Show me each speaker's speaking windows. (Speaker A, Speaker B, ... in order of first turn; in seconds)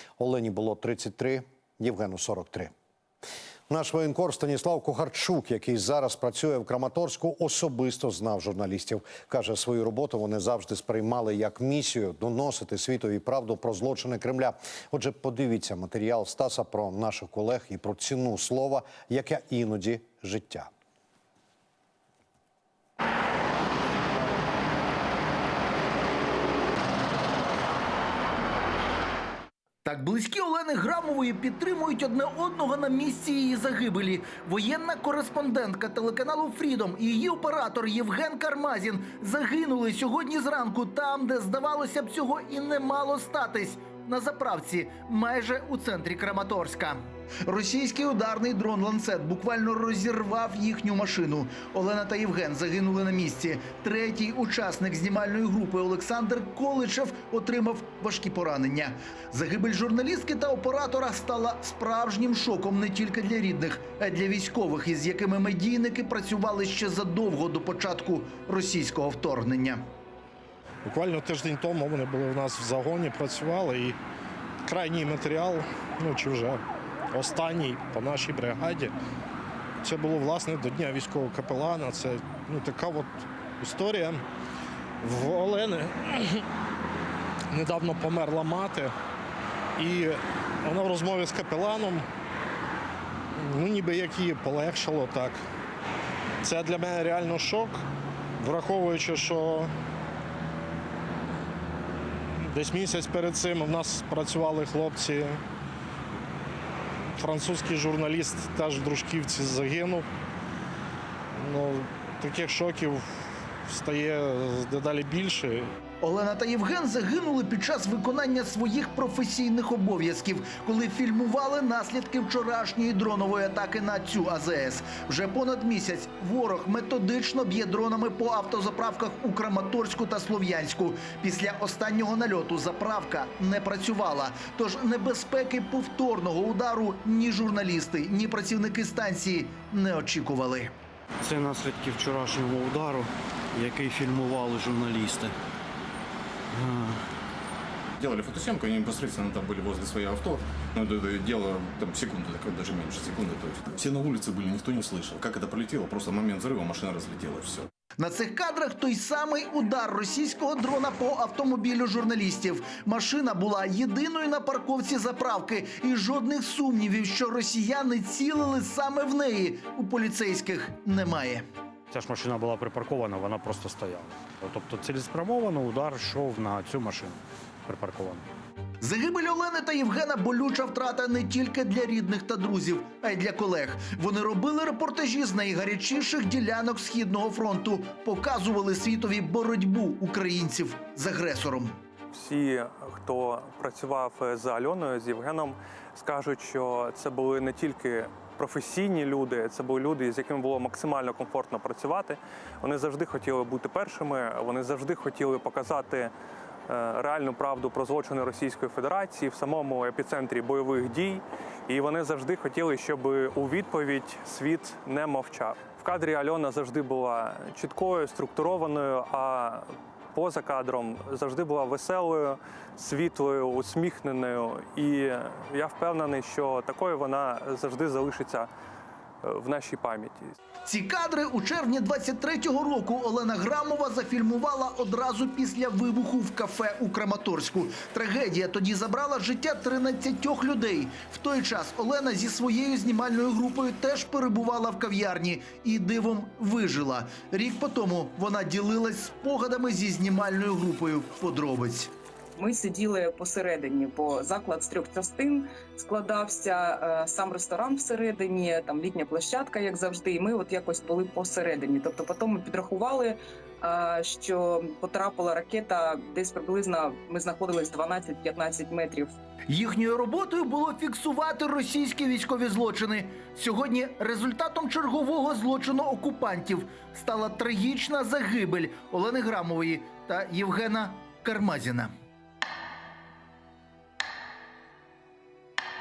Speaker A: 0.2-2.7, 3.7-20.7
Speaker B: 29.9-69.8, 116.0-140.7, 158.0-171.4, 178.8-191.8, 230.7-251.9, 269.5-281.9
Speaker C: 70.8-74.0, 74.7-79.0, 79.8-84.2, 85.0-86.5, 87.5-88.9, 89.8-92.1, 93.3-95.4, 96.4-97.8, 98.4-99.7, 102.4-105.4, 107.2-110.1, 111.3-115.7
Speaker D: 141.2-145.3, 146.5-147.0
Speaker E: 148.0-157.7
Speaker F: 171.9-178.3
Speaker G: 192.1-206.1, 206.7-228.5, 229.2-230.4
Speaker H: 252.4-269.2